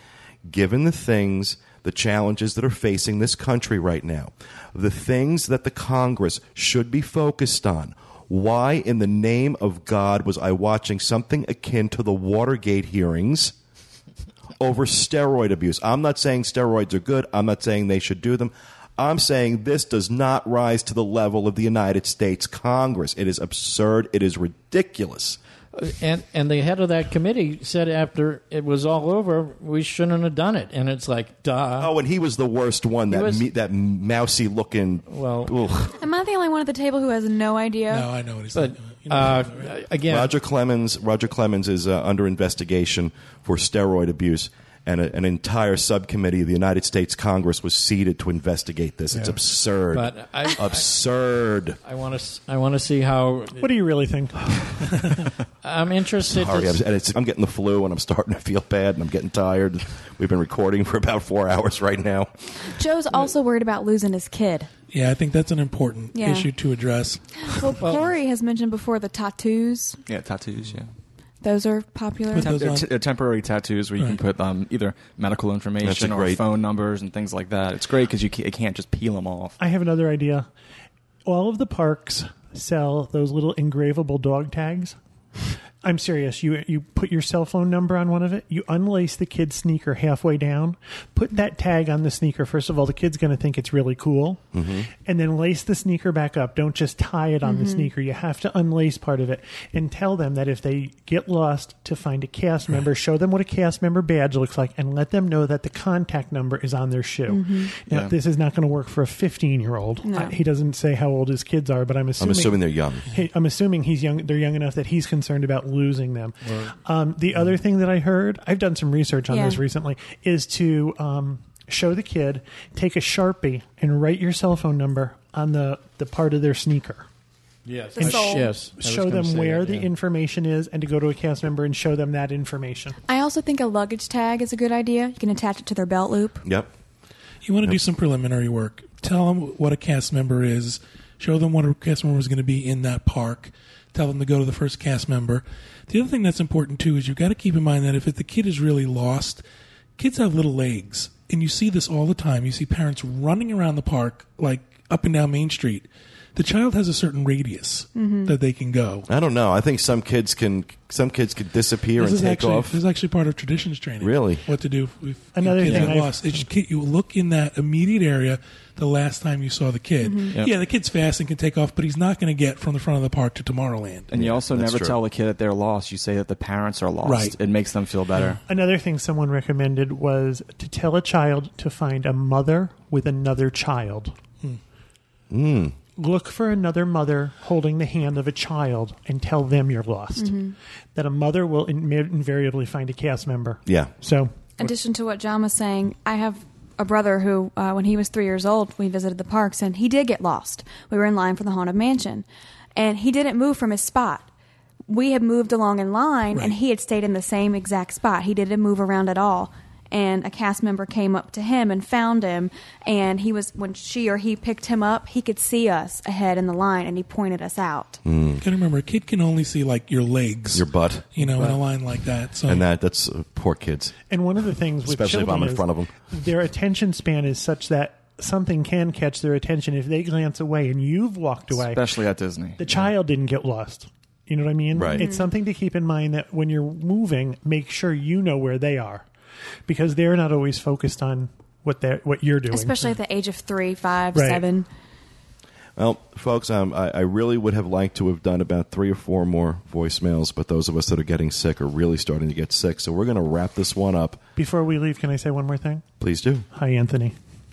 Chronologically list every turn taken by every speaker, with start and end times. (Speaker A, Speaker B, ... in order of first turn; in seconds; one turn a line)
Speaker A: 0.4-13.5
Speaker A: 14.6-25.4
Speaker B: 25.7-31.9
Speaker A: 31.8-36.0
Speaker B: 33.1-33.4
Speaker B: 35.1-35.5
Speaker C: 36.0-38.1
Speaker D: 37.9-39.8
Speaker B: 38.5-40.3
Speaker A: 40.1-51.8
Speaker B: 49.9-50.8
Speaker B: 51.8-53.7
Speaker E: 53.6-54.7
Speaker B: 55.6-56.8
Speaker A: 56.3-62.7
Speaker C: 62.6-64.7
Speaker D: 64.9-67.7
Speaker C: 66.1-66.5
Speaker C: 67.3-70.0
Speaker F: 70.1-70.9
Speaker C: 71.4-72.5
Speaker D: 72.3-72.9
Speaker F: 72.4-79.5
Speaker A: 75.8-76.4
Speaker E: 79.6-80.5
Speaker E: 81.2-85.0
Speaker E: 85.8-127.1
Speaker A: 94.5-94.9
Speaker C: 97.4-97.9
Speaker C: 107.3-107.7
Speaker F: 107.9-108.1
Speaker C: 110.0-110.4
Speaker A: 112.2-113.0
Speaker B: 116.4-116.7
Speaker C: 119.3-119.6
Speaker B: 127.7-129.9
Speaker C: 128.0-128.5
Speaker E: 128.0-133.0
Speaker C: 133.1-136.4
Speaker A: 136.4-136.7
Speaker D: 137.4-149.4
Speaker D: 150.0-159.1
Speaker C: 157.9-158.3
Speaker A: 159.1-162.8
Speaker D: 162.0-174.1
Speaker A: 164.0-164.4
Speaker E: 165.3-166.5
Speaker C: 170.0-170.3
Speaker F: 174.1-178.4
Speaker A: 174.1-175.0
Speaker D: 177.0-177.4
Speaker D: 178.1-178.4
Speaker E: 178.4-184.2
Speaker A: 185.3-185.8
Speaker E: 185.9-190.4
Speaker C: 190.2-190.5
Speaker E: 190.9-194.7
Speaker A: 193.7-193.9
Speaker C: 194.6-202.2
Speaker C: 202.8-204.3
Speaker C: 204.9-218.0
Speaker D: 206.3-206.6
Speaker A: 218.0-218.4
Speaker D: 218.4-222.7
Speaker A: 220.5-221.1
Speaker B: 221.2-221.6
Speaker A: 222.5-223.9
Speaker E: 224.1-231.8
Speaker A: 224.8-225.9
Speaker F: 231.5-232.6
Speaker E: 232.6-239.1
Speaker A: 234.7-235.1
Speaker C: 235.0-235.3
Speaker E: 239.7-242.9
Speaker C: 242.5-244.7
Speaker E: 244.1-244.4
Speaker A: 245.8-254.2
Speaker E: 254.3-255.8
Speaker A: 256.0-256.4
Speaker E: 256.5-257.1